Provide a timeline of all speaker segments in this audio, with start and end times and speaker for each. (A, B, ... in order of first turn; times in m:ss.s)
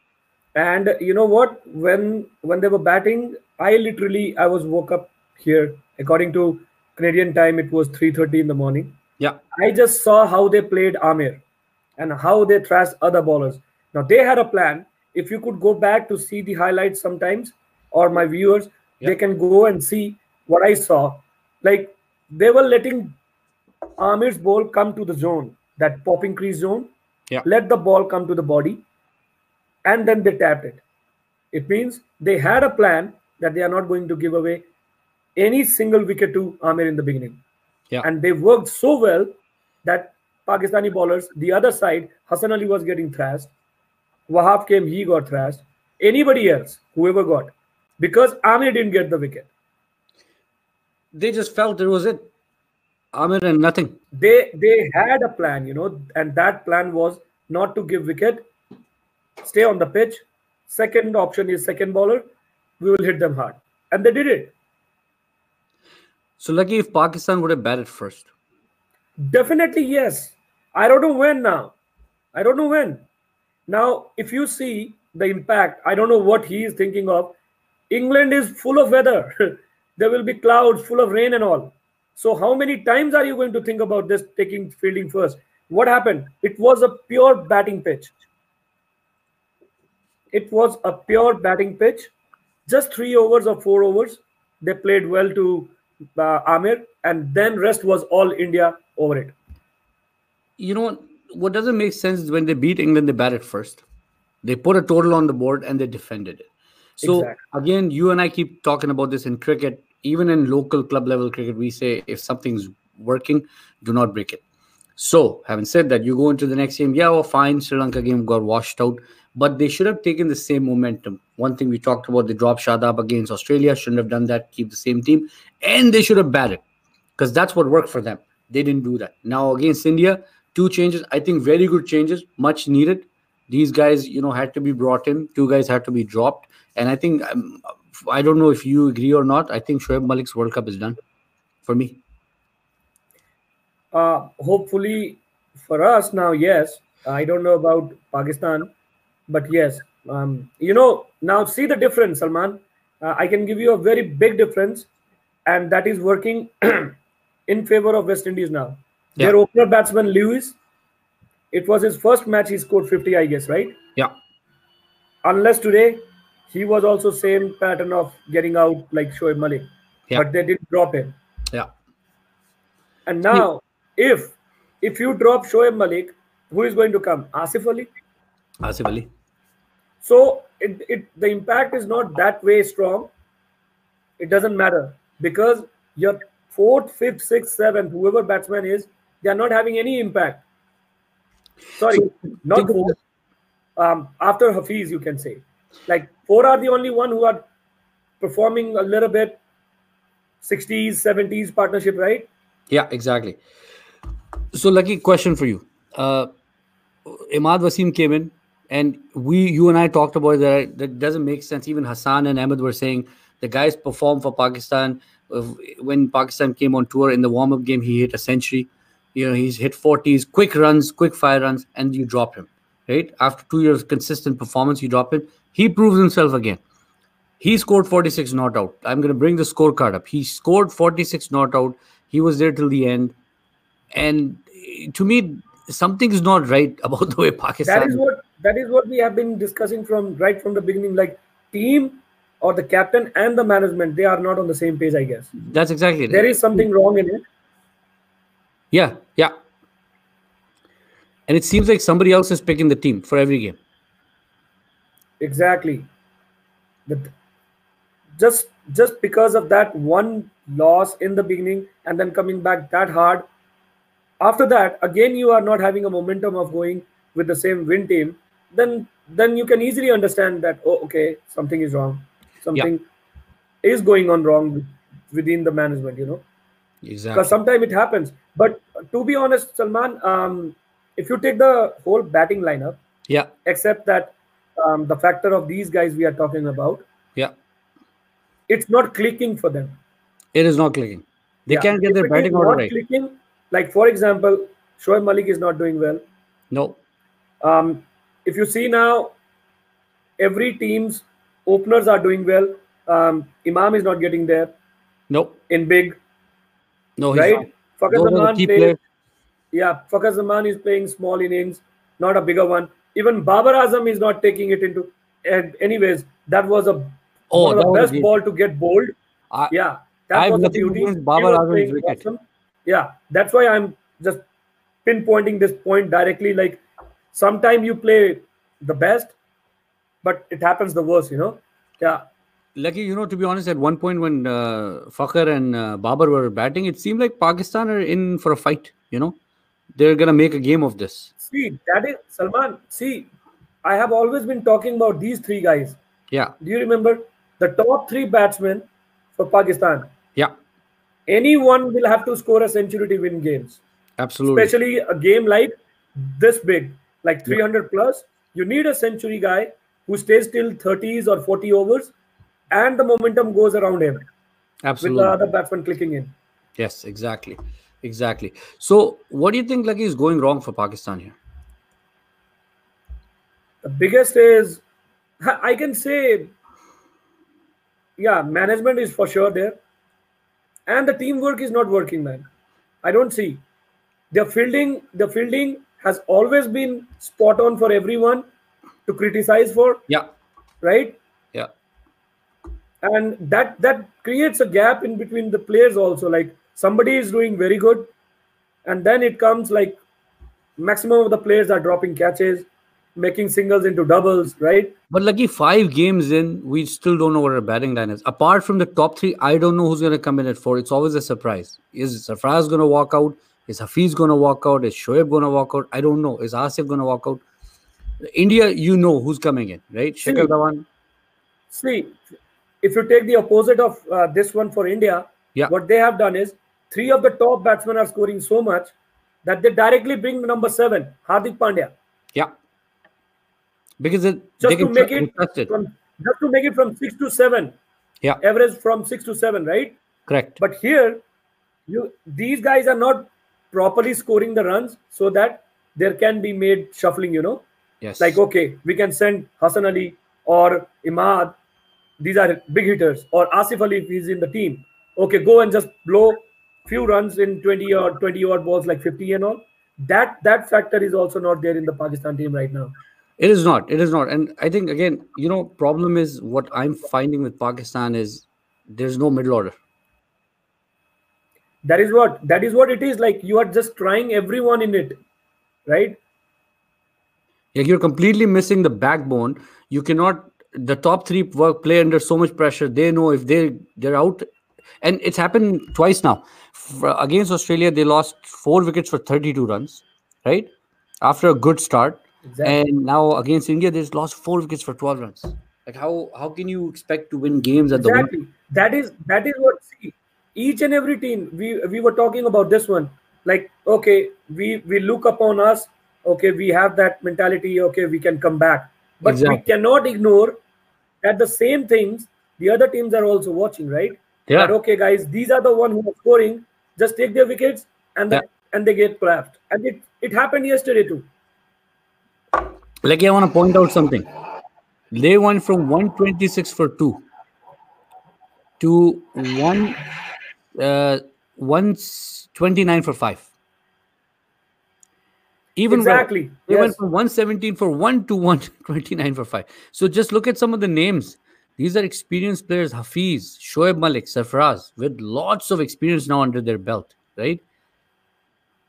0:00.6-0:09.0 A
0:09.6-0:11.4 A
0:12.0-0:23.2 A
0:24.0-0:26.9 A
0:27.4-0:28.8 A
0:29.8-0:30.8 A
0:31.5-0:34.6 A
0:35.4-0:37.4 A
0:38.0-0:39.3 A
0:39.8-0:43.5 A
0:44.3-0:49.5 A
0:51.1-0:52.3 B
0:53.1-0:54.0 B
0:54.2-0:58.5 A
0:59.4-1:02.3 A
1:02.8-1:04.5 A
1:06.4-1:08.3 B
1:09.2-1:11.7 A
1:12.3-1:13.0 A
1:13.7-1:17.4 A
1:17.9-1:28.2 A
1:30.3-1:32.1 A
1:32.7-1:39.4 A
1:40.6-1:43.8 B
1:44.4-1:46.5 B
1:47.0-1:54.4 B
1:47.0-1:47.4 A
1:55.0-2:06.6 B
2:07.2-2:21.0 B
2:21.6-2:22.0 B
2:23.9-2:28.7 A
2:29.3-2:34.9 A
2:35.5-2:37.0 A
2:37.5-2:40.6 A
2:41.5-2:43.8 A
2:45.2-2:51.2 A
2:53.1-2:57.9 A
2:58.6-2:59.1 B
3:00.0-3:03.1 A
3:04.2-3:10.4 A
3:11.8-3:13.0 A
3:11.9-3:13.0 B
3:13.8-3:17.5 A
3:18.2-3:19.4 A
3:20.4-3:22.3 A
3:22.7-3:23.4 B
3:24.5-3:26.3 B
3:27.1-3:46.6 B
3:47.4-3:53.1 B
3:53.9-3:58.0 B
3:57.6-4:05.3 A
4:05.4-4:06.7 B
4:06.1-4:07.2 A
4:08.7-4:09.3 B
4:11.3-4:13.6 B
4:15.2-4:15.9 A
4:18.2-4:23.3 A
4:24.2-4:32.8 A
4:33.6-4:36.2 A
4:36.8-4:37.4 B
4:37.1-4:42.8 A
4:43.4-4:46.8 A
4:48.5-4:49.8 A
4:50.3-4:52.7 B
4:51.5-4:56.0 A
4:56.5-4:56.8 B
4:57.4-4:59.1 A
5:00.2-5:04.5 A
5:05.1-5:05.4 B
5:05.5-5:06.0 A
5:07.0-5:08.8 B
5:07.1-5:08.8 A
5:09.5-5:18.9 A
5:17.3-5:18.1 B
5:19.5-5:24.2 A
5:20.1-5:22.0 B
5:24.8-5:29.2 A
5:30.0-5:32.0 A
5:32.6-5:39.2 B
5:39.8-5:41.1 B
5:41.2-5:43.1 A
5:43.6-5:45.8 A
5:46.4-5:49.9 A
5:51.1-5:53.6 A
5:54.0-5:54.5 B
5:54.3-6:01.9 A
6:02.5-6:04.1 A
6:04.6-6:05.2 B
6:04.8-6:06.1 A
6:06.6-6:11.2 B
6:13.6-6:14.6 A
6:15.2-6:16.3 A
6:18.0-6:19.6 A
6:20.7-6:22.2 A
6:22.8-6:23.4 A
6:24.1-6:28.2 A
6:28.9-6:29.8 A
6:30.6-6:31.0 A
6:32.8-6:37.9 A
6:38.7-6:39.8 A
6:40.6-6:44.7 A
6:44.9-6:57.2 B
6:58.1-7:00.6 B
7:00.0-7:00.3 A
7:01.5-7:02.0 A
7:02.6-7:08.7 A
7:09.2-7:11.7 A
7:13.8-7:15.5 B
7:14.4-7:17.6 A
7:18.2-7:19.8 A
7:20.1-7:20.4 B
7:20.4-7:21.0 A
7:21.7-7:27.4 A
7:27.8-7:28.2 B
7:28.0-7:31.4 A
7:32.0-7:42.7 A
7:43.2-7:49.6 B
7:51.6-7:55.0 A
7:55.7-7:56.0 A
7:57.5-8:04.3 B
8:04.8-8:10.5 B
8:11.0-8:18.1 B
8:12.2-8:12.6 A
8:17.7-8:30.4 A
8:29.0-8:29.4 B
8:31.0-8:41.1 A
8:34.3-8:34.5 B
8:42.8-8:44.1 B
8:44.9-8:47.0 B
8:48.6-8:49.8 B
8:50.6-8:53.3 B
8:55.6-9:07.4 B
8:55.7-8:56.8 A